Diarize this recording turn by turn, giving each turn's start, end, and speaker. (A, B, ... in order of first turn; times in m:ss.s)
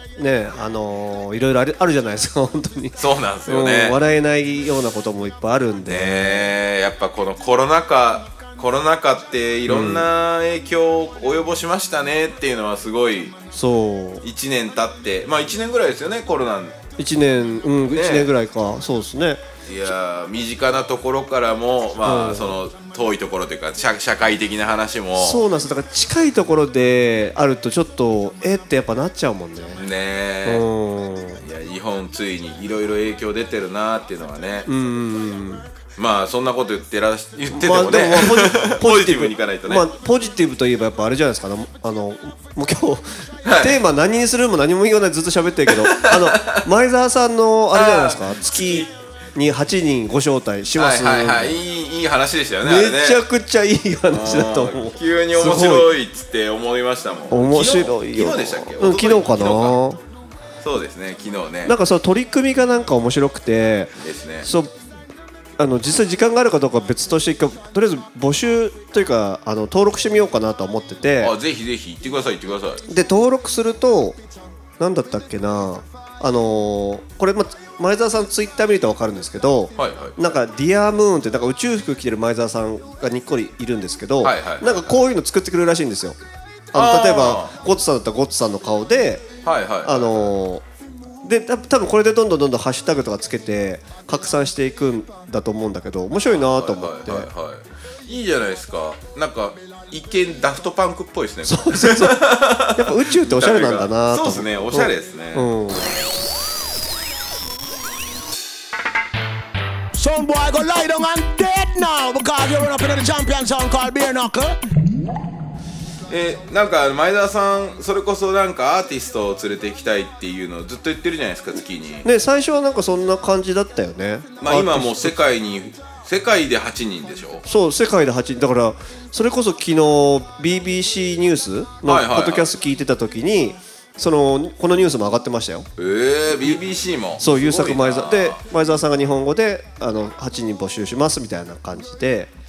0:00.2-0:06.5 A
0:03.0-0:04.0 B
0:05.9-0:13.4 B
0:09.7-0:10.0 A
0:13.5-0:14.2 A
0:14.2-0:16.8 B
0:17.0-0:19.4 A
0:17.9-0:18.3 B
0:19.6-0:25.4 B
0:22.0-0:22.6 A
0:25.2-0:29.8 A
0:29.8-0:30.6 B
0:30.4-0:31.4 A
0:31.4-0:34.7 B
0:34.7-0:35.6 A
0:36.0-0:39.9 B
0:37.5-0:51.6 A
0:43.4-0:43.8 B
0:45.7-0:46.7 B
0:47.7-0:48.9 B
0:50.7-0:53.2 B
0:52.6-0:55.9 A
0:54.1-0:59.8 B
0:57.3-1:00.0 A
1:00.6-1:01.7 B
1:01.6-1:04.7 A
1:04.0-1:04.5 B
1:05.6-1:11.3 A
1:11.2-1:12.8 B
1:12.9-1:14.2 A
1:14.8-1:26.2 A
1:19.8-1:20.1 B
1:24.2-1:25.0 B
1:26.7-1:29.3 A
1:26.7-1:27.5 B
1:29.4-1:30.3 B
1:29.8-1:30.6 A
1:31.2-1:37.3 A
1:36.3-1:45.5 B
1:41.4-1:45.9 A
1:49.9-1:54.6 C
1:56.1-2:02.0 B
2:02.0-2:05.1 A
2:04.4-2:07.4 B
2:07.4-2:15.7 A
2:11.8-2:12.5 B
2:15.8-2:18.4 B
2:17.2-2:22.3 A